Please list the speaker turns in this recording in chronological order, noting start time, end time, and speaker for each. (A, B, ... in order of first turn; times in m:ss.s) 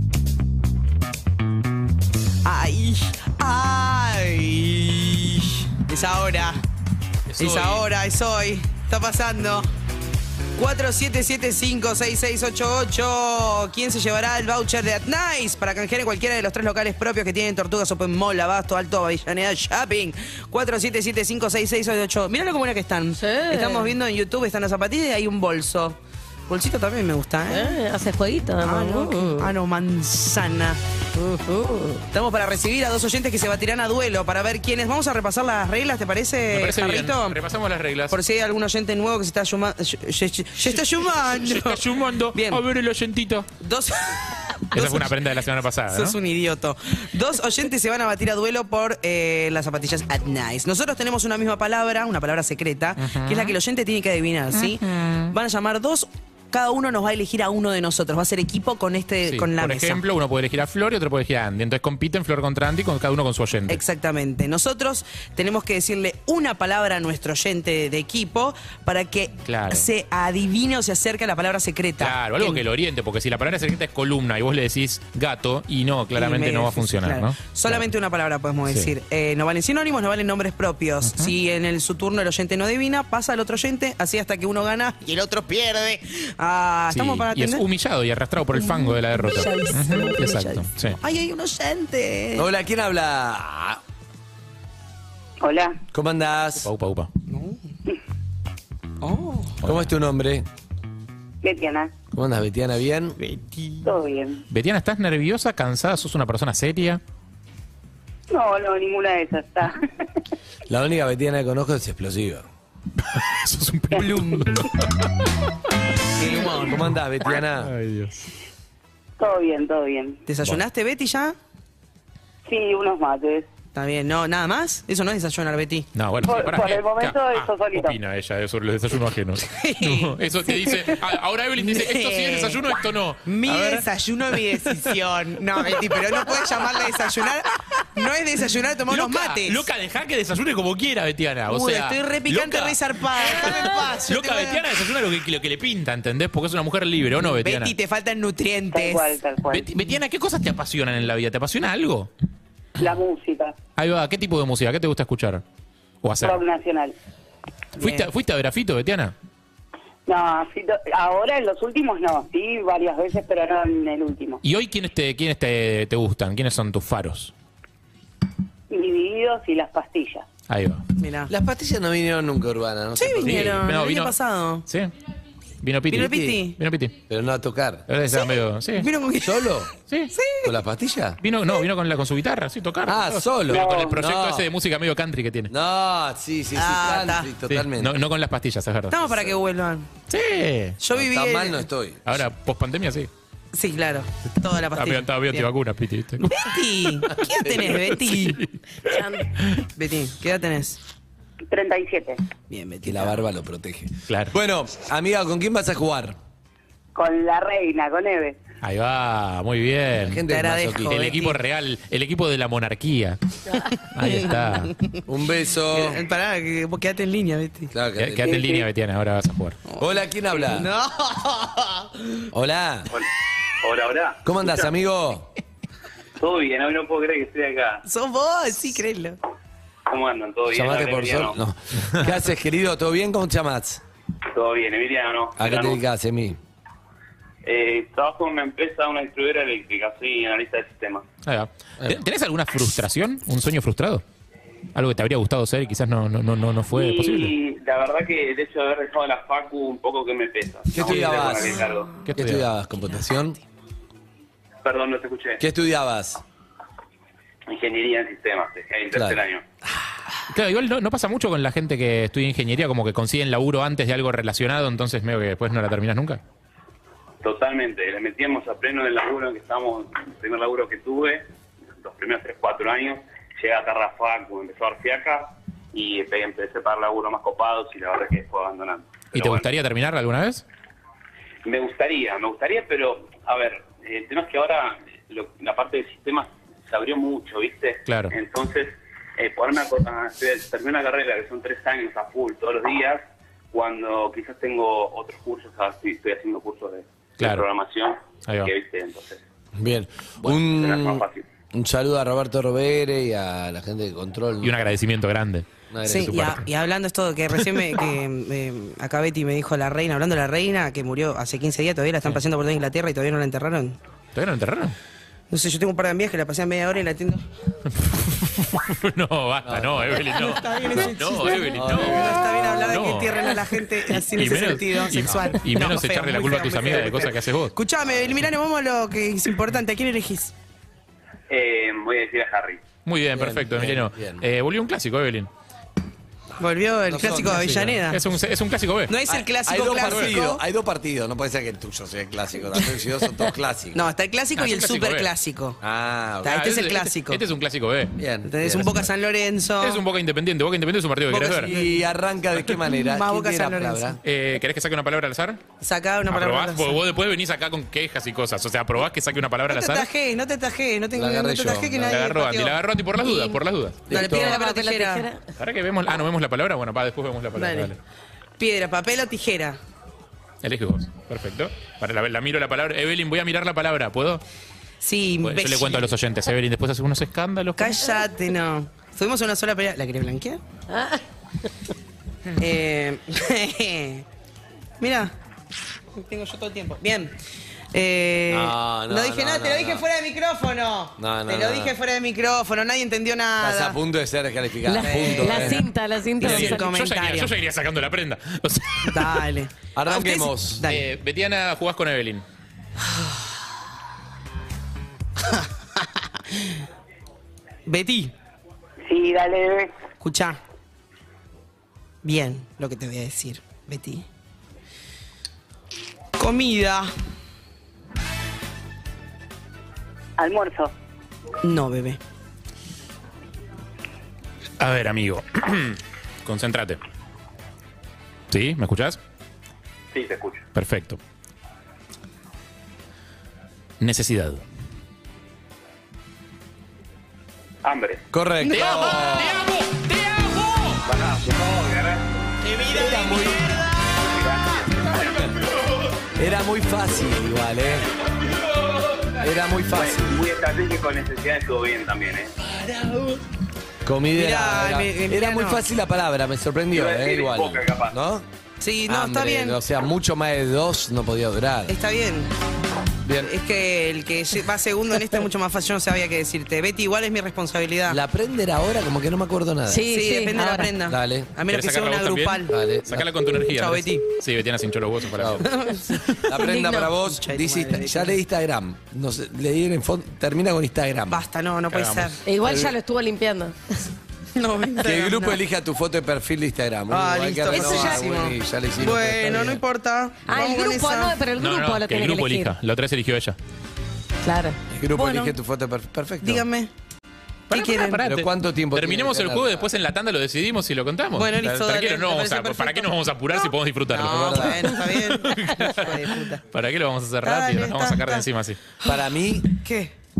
0:02.4-0:06.6 A
0:07.3-0:07.8 B
0:07.4-0:09.7 A
0:10.6-0:27.8 A
0:23.2-0:23.9 C
0:27.5-0:29.5 C
0:28.6-0:30.8 A
0:31.2-0:32.0 C
0:32.1-0:37.4 A
0:36.5-0:38.2 B
0:38.1-0:41.8 A
0:41.1-0:43.5 B
0:42.3-0:42.6 A
0:43.6-0:45.2 A
0:44.7-0:46.2 B
0:45.9-1:00.0 A
0:53.0-0:53.5 B
0:54.5-0:55.3 B
0:59.2-1:03.8 B
1:03.7-1:12.6 A
1:09.4-1:09.9 B
1:12.0-1:17.9 B
1:16.1-1:27.6 A
1:18.6-1:18.9 B
1:21.0-1:21.3 B
1:26.9-1:31.0 B
1:28.6-1:32.5 A
1:32.3-1:33.8 D
1:35.4-1:35.8 E
1:35.9-1:36.7 D
1:36.6-1:37.1 B
1:37.3-1:37.6 A
1:39.0-1:39.6 A
1:39.6-1:39.9 B
1:39.6-1:40.4 D
1:41.4-1:41.9 E
1:42.1-1:43.2 D
1:43.2-1:43.9 A
1:43.8-1:44.4 E
1:44.5-1:47.0 B
1:48.3-1:49.8 E
1:50.7-1:52.5 D
1:53.1-1:55.2 B
1:53.9-1:54.2 E
1:54.0-1:54.4 A
1:56.2-1:56.7 A
1:56.5-1:57.7 D
1:57.6-1:58.1 B
1:59.2-2:00.2 E
2:00.3-2:01.4 A
2:02.4-2:03.5 E
2:03.7-2:05.9 A
2:06.0-2:13.8 B
2:06.2-2:08.0 E
2:09.4-2:10.9 A
2:11.6-2:12.6 A
2:13.2-2:19.6 A
2:14.4-2:14.8 B
2:16.6-2:16.9 B
2:18.9-2:27.7 B
2:21.5-2:24.6 A
2:27.2-2:29.1 A
2:28.7-2:29.7 E
2:29.5-2:32.1 B
2:32.8-2:33.6 E
2:33.8-2:35.4 B
2:36.0-2:36.4 B
2:36.2-2:37.0 E
2:37.8-2:38.1 A
2:37.8-2:39.1 B
2:40.1-2:44.4 E
2:44.4-2:47.3 B
2:48.7-2:50.2 E
2:50.5-2:50.8 B
2:51.0-2:51.3 A
2:51.3-2:53.6 D
2:53.0-2:54.6 A
2:53.2-2:54.1 B
2:54.7-2:54.9 B
2:55.6-2:56.9 B
2:55.9-2:56.6 A
2:57.1-2:57.9 D
2:57.9-2:58.9 B
2:58.8-2:59.6 A
2:59.2-2:59.8 D
3:00.1-3:00.5 A
3:00.4-3:01.2 D
3:01.2-3:05.5 B
3:02.8-3:04.5 D
3:03.5-3:03.9 E
3:05.5-3:07.9 D
3:06.5-3:07.3 A
3:07.5-3:09.0 B
3:08.9-3:09.9 A
3:09.0-3:09.3 D
3:10.1-3:10.8 B
3:10.8-3:11.6 A
3:10.9-3:12.1 D
3:12.0-3:13.1 B
3:13.5-3:15.5 A
3:14.8-3:16.5 B
3:16.2-3:18.4 A
3:17.0-3:19.6 B
3:18.8-3:19.3 C
3:19.8-3:20.8 A
3:21.5-3:22.2 E
3:22.5-3:23.2 A
3:22.8-3:26.2 D
3:24.1-3:24.3 B
3:26.9-3:28.4 E
3:28.6-3:30.2 B
3:29.9-3:31.0 D
3:30.3-3:31.4 A
3:30.9-3:33.2 B
3:33.9-3:34.7 B
3:34.0-3:35.0 A
3:35.0-3:36.0 D
3:35.7-3:37.7 A
3:37.7-3:38.4 D
3:38.0-3:39.6 B
3:38.3-3:38.6 E
3:39.7-3:42.2 A
3:39.8-3:40.7 D
3:42.3-3:42.9 D
3:43.6-3:44.7 F
3:44.2-3:45.3 D
3:46.2-3:47.8 F
3:47.8-3:49.2 A
3:49.8-3:51.4 F
3:50.5-3:53.8 D
3:54.3-3:55.8 F
3:55.4-3:56.4 D
3:57.4-4:01.0 F
4:01.2-4:04.0 B
4:04.7-4:07.3 B
4:06.7-4:11.9 F
4:10.7-4:13.4 D
4:10.8-4:11.5 B
4:12.0-4:12.4 B
4:14.6-4:15.4 F
4:15.4-4:16.2 D
4:17.5-4:19.4 F
4:20.3-4:26.2 B
4:27.2-4:31.3 F
4:31.8-4:39.5 F
4:39.1-4:40.4 B
4:41.4-4:59.2 F
4:47.8-4:48.1 B
4:57.2-4:57.4 B
4:58.2-4:58.5 B
4:59.5-5:04.6 D
5:00.3-5:01.2 F
5:04.4-5:05.5 B
5:05.7-5:06.2 D
5:05.8-5:13.8 A
5:06.0-5:06.4 B
5:14.1-5:14.8 B
5:15.3-5:17.2 A
5:17.8-5:27.5 B
5:19.4-5:20.2 D
5:20.1-5:30.3 A
5:21.5-5:22.4 D
5:31.3-5:32.6 F
5:32.8-5:35.3 B
5:33.1-5:34.2 D
5:36.4-5:38.0 A
5:36.9-5:37.7 D
5:37.5-5:39.0 B
5:38.9-5:40.4 A
5:39.1-5:43.8 D
5:43.7-5:45.6 A
5:44.4-5:45.1 B
5:45.6-5:46.4 D
5:46.2-5:47.2 A
5:46.2-5:48.0 B
5:48.0-5:48.9 D
5:48.2-5:49.8 A
5:49.6-5:51.5 B
5:51.1-5:54.0 D
5:51.4-5:51.8 A
5:52.7-5:54.0 A
5:54.0-5:55.4 B
5:55.6-5:56.8 A
5:56.1-5:59.9 B
5:59.5-6:03.4 A
6:00.9-6:02.1 D
6:01.8-6:03.8 B
6:03.9-6:04.4 D
6:03.9-6:05.1 A
6:04.0-6:05.2 C
6:05.4-6:07.8 B
6:07.4-6:07.7 A
6:08.4-6:09.6 A
6:10.4-6:14.2 B
6:14.8-6:16.0 A
6:15.2-6:17.8 B
6:17.6-6:20.4 A
6:20.7-6:21.0 C
6:22.4-6:24.0 A
6:24.8-6:25.1 A
6:26.0-6:27.1 A
6:27.7-6:33.8 A
6:28.3-6:29.8 D
6:31.0-6:31.7 D
6:33.4-6:35.6 D
6:34.6-6:36.7 C
6:34.8-6:35.6 A
6:36.2-6:37.3 A
6:36.2-6:39.2 B
6:38.8-6:40.8 A
6:39.7-6:40.6 D
6:40.7-6:42.2 B
6:47.6-6:48.1 A
6:48.8-6:49.7 E
6:50.0-6:50.4 A
6:52.0-6:54.0 A
6:56.2-6:56.9 A
7:00.2-7:00.7 E
7:01.4-7:02.0 A
7:04.6-7:06.8 B
7:08.3-7:09.0 B
7:09.9-7:10.4 F
7:10.5-7:11.0 B
7:13.8-7:14.4 B
7:17.6-7:18.0 F
7:18.1-7:19.4 D
7:18.4-7:20.8 B
7:20.8-7:22.2 F
7:22.7-7:23.6 D
7:23.9-7:24.9 F
7:26.2-7:27.9 D
7:29.1-7:30.2 D
7:29.7-7:32.3 F
7:33.8-7:38.2 D
7:34.1-7:35.6 A
7:36.7-7:37.9 F
7:38.6-7:39.6 A
7:38.9-7:41.7 D
7:41.7-7:42.3 A
7:43.0-7:43.3 D
7:43.2-7:48.0 A
7:47.9-7:49.9 D
7:49.7-7:50.7 C
7:49.9-7:52.5 A
7:50.9-7:51.3 D
7:51.5-7:55.6 B
7:52.5-7:53.0 D
7:53.5-7:54.0 A
7:55.2-7:55.5 D
7:55.4-7:58.2 A
7:56.2-8:01.2 D
7:56.4-7:56.8 C
8:01.1-8:02.2 A
8:01.7-8:02.1 B
8:02.2-8:03.6 C
8:02.4-8:02.7 D
8:04.4-8:05.4 A
8:04.8-8:09.6 D
8:06.9-8:11.1 A
8:07.5-8:07.8 C
8:10.3-8:12.5 C
8:11.4-8:13.4 B
8:14.2-8:14.6 C
8:14.7-8:16.4 D
8:14.9-8:15.4 A
8:16.2-8:16.7 A
8:17.5-8:18.0 A
8:17.5-8:28.6 B
8:18.0-8:19.7 D
8:21.1-8:26.4 A
8:24.0-8:24.8 D
8:27.2-8:28.2 A
8:28.8-8:29.9 A
8:28.8-8:29.5 D